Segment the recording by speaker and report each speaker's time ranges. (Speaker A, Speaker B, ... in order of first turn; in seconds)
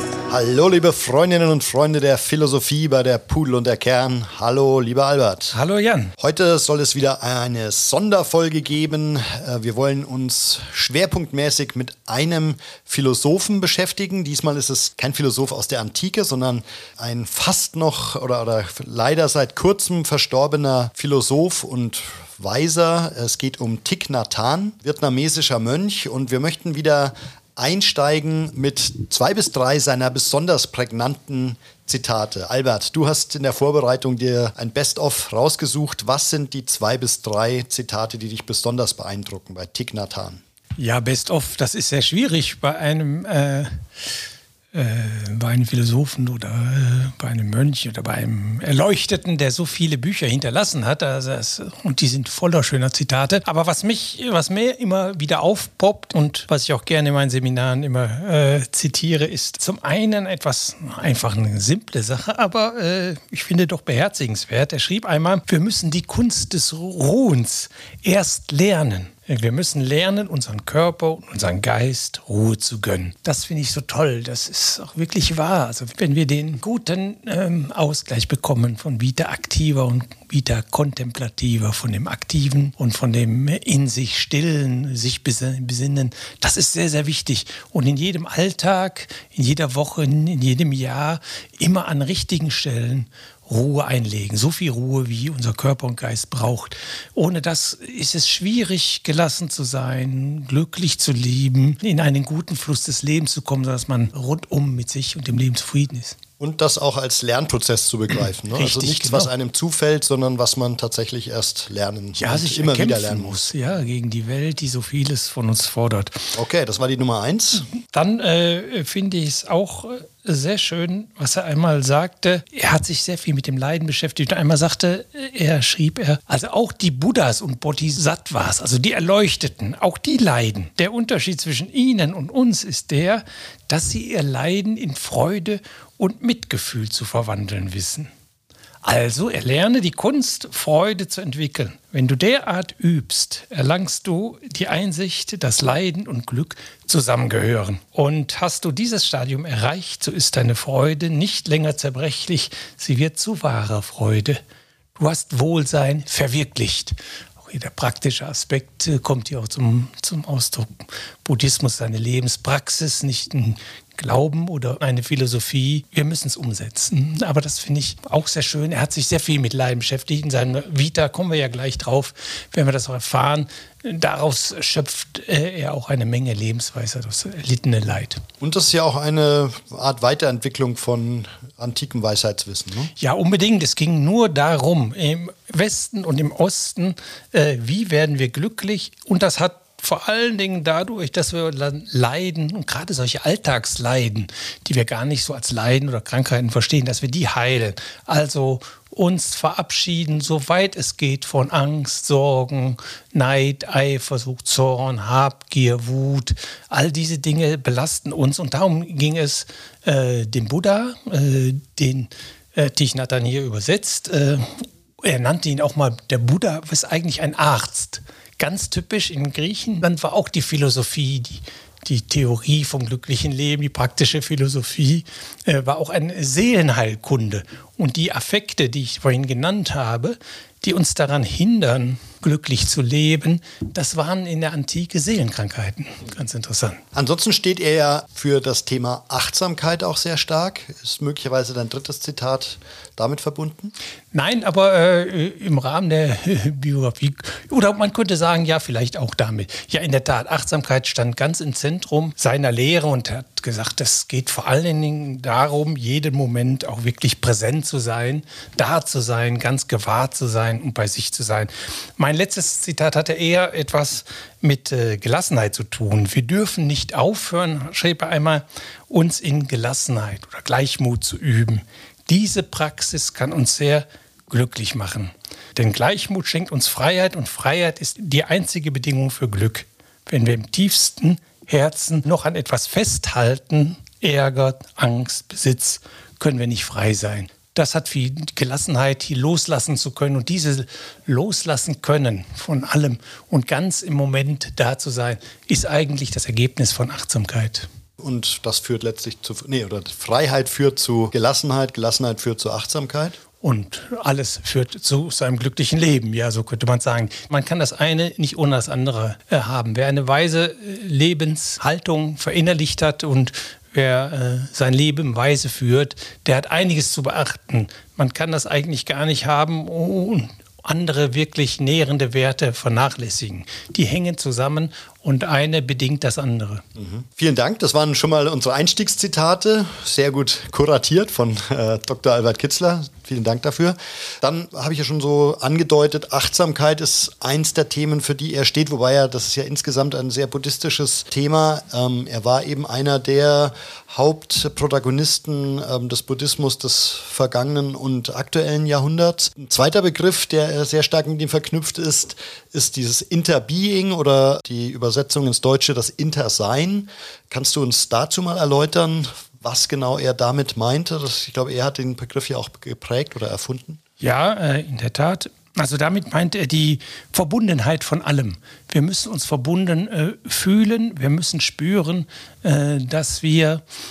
Speaker A: 0.3-5.5, 6.2-40.4, 106.4-113.4, 116.3-117.7, 178.4-182.9, 236.9-243.7, 298.0-303.2, 326.8-363.8
Speaker B: 5.5-6.1, 40.8-43.8, 44.7-106.2, 108.5-109.3, 112.2-116.2, 117.8-138.1, 138.8-154.4, 154.9-178.2, 183.0-236.8, 244.1-297.6, 303.4-326.6, 364.0-373.6